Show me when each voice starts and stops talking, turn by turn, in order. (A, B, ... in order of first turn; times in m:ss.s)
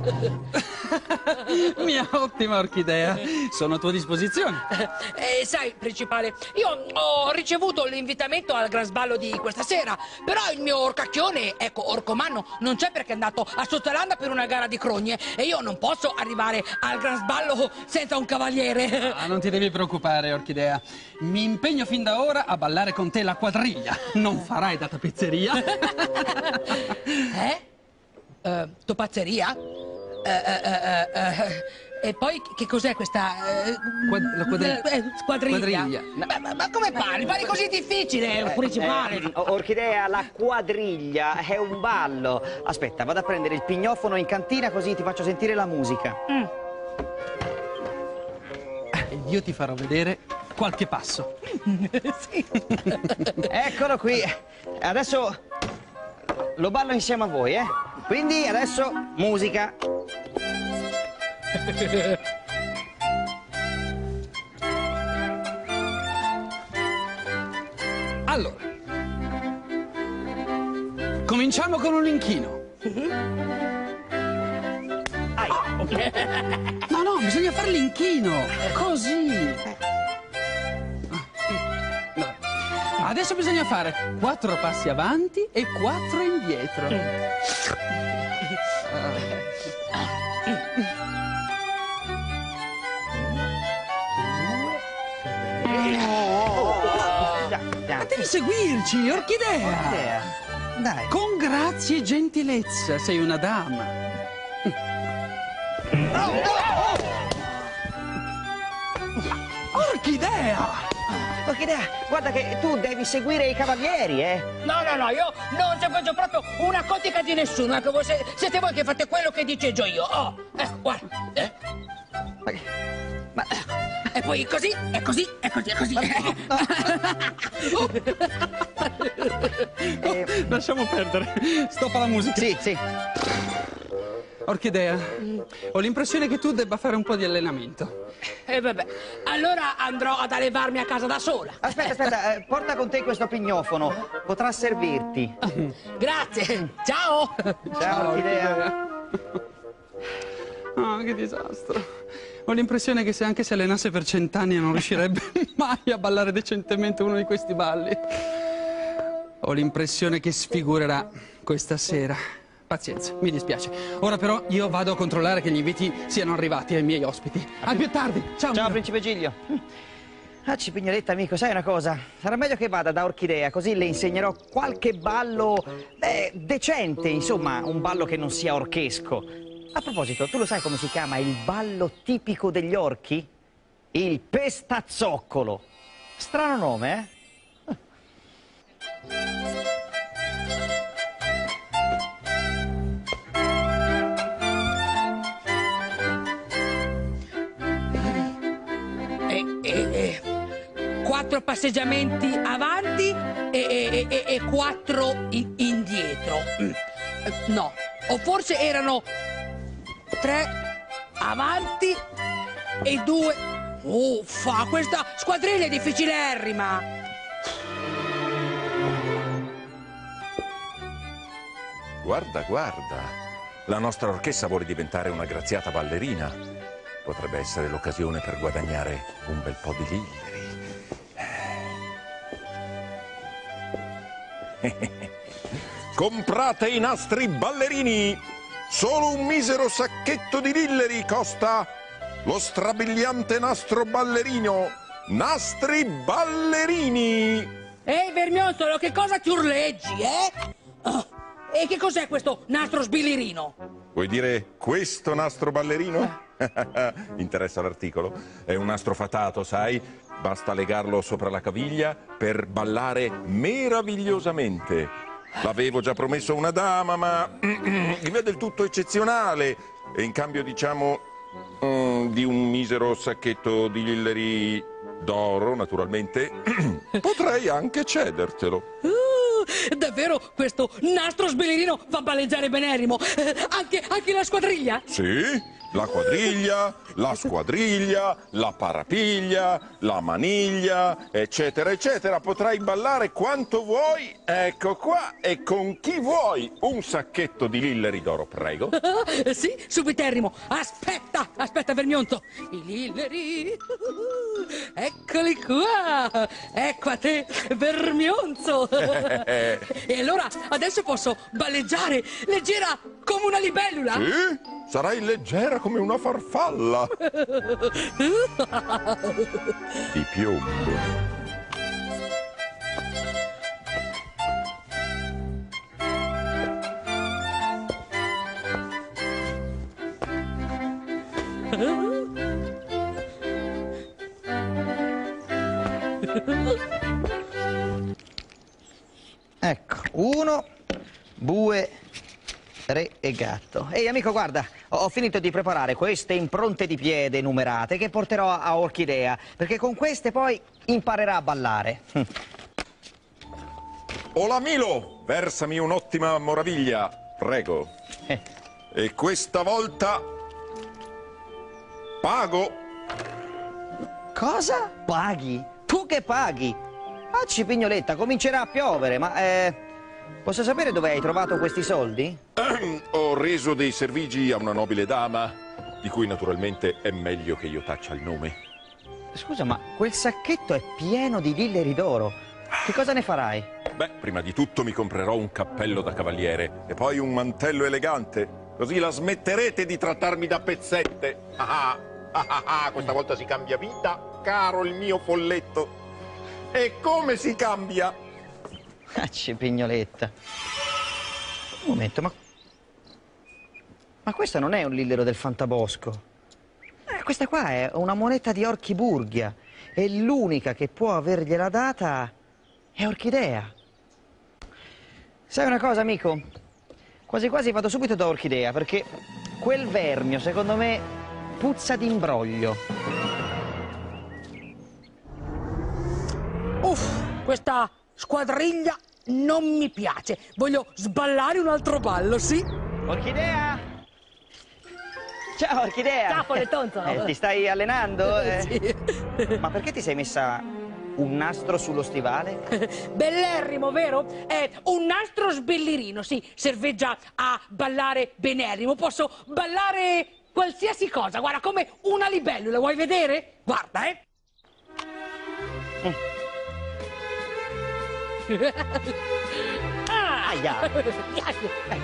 0:00.1-0:04.6 A
0:04.7-0:19.2 B
0:19.0-0:27.2 A
0:26.5-0:27.6 B
0:28.4-0:29.6 B
0:30.2-0:39.4 B
0:34.1-0:34.9 A
0:35.4-0:36.1 A
0:38.4-0:46.2 C
0:49.0-0:51.4 A
0:51.6-0:53.2 B
0:53.4-0:55.4 C
0:56.6-0:59.8 C
1:01.7-1:02.0 B
1:08.3-1:08.6 A
1:11.2-1:12.6 A
1:15.4-1:15.7 C
1:16.0-1:16.5 B
1:16.9-1:19.6 A
1:22.9-1:27.1 A
1:28.9-1:29.3 A
1:34.2-1:34.8 C
1:35.6-1:38.2 C
1:35.9-1:36.5 A
1:38.0-1:40.3 A
1:39.6-1:41.1 C
1:41.1-1:44.0 A
1:46.1-1:47.0 C
1:49.7-1:50.9 A
1:51.2-1:54.5 C
1:54.6-2:01.5 B
2:03.3-2:03.6 C
2:04.1-2:08.3 B
2:06.0-2:06.8 C
2:09.0-2:12.6 A
2:10.0-2:10.3 C
2:12.3-2:12.8 C
2:14.4-2:17.9 A
2:18.5-2:22.0 B
2:21.6-2:25.3 C
2:26.0-2:27.6 B
2:27.7-2:28.7 C
2:27.8-2:28.8 A
2:30.8-2:31.8 A
2:32.4-2:38.0 A
2:39.4-2:48.8 A
2:48.5-2:49.6 C
2:50.4-3:03.3 C
3:03.9-3:05.6 C
3:06.2-3:07.1 C
3:19.3-3:20.2 B
3:21.0-3:29.1 B
3:30.2-3:30.6 B
3:31.2-3:32.0 B
3:32.8-3:36.8 B
3:42.0-3:43.1 D
3:43.7-3:46.4 D
3:47.0-3:50.6 D
3:51.2-3:51.5 D
3:54.6-3:55.1 D
3:55.9-4:01.7 D
4:02.2-4:07.5 D
4:07.8-4:13.6 B
4:13.9-4:31.0 D
4:31.6-4:38.6 D
4:38.8-4:44.8 B
4:44.9-4:58.7 D
4:58.7-5:14.0 B
5:08.8-5:09.6 D
5:13.9-5:17.0 D
5:17.2-5:19.3 B
5:19.9-5:20.9 D
5:39.4-5:40.4 C
5:41.2-5:41.7 C
5:42.7-5:52.1 C
5:54.1-5:57.7 D
5:58.7-6:00.0 D
6:02.0-6:02.6 D
6:04.1-6:06.6 C
6:07.1-6:09.6 C
6:10.2-6:12.2 C
6:12.4-6:18.4 D
6:19.1-6:23.5 C
6:23.7-6:35.7 D
6:36.5-6:37.9 D
6:39.0-6:40.1 C
6:41.6-6:42.1 C
6:44.0-6:46.0 C
6:46.9-6:52.1 C
6:52.8-6:53.5 C
6:55.3-6:56.2 C
6:57.1-6:58.9 C
6:59.4-7:02.6 C
7:06.6-7:12.5 B
7:12.8-7:13.6 C
7:15.4-7:18.6 C
7:16.1-7:17.1 B
7:18.1-7:19.4 B
7:19.4-7:22.4 C
7:22.5-7:34.0 B
7:38.3-7:38.9 B
7:39.8-7:41.5 B
7:40.2-7:40.7 C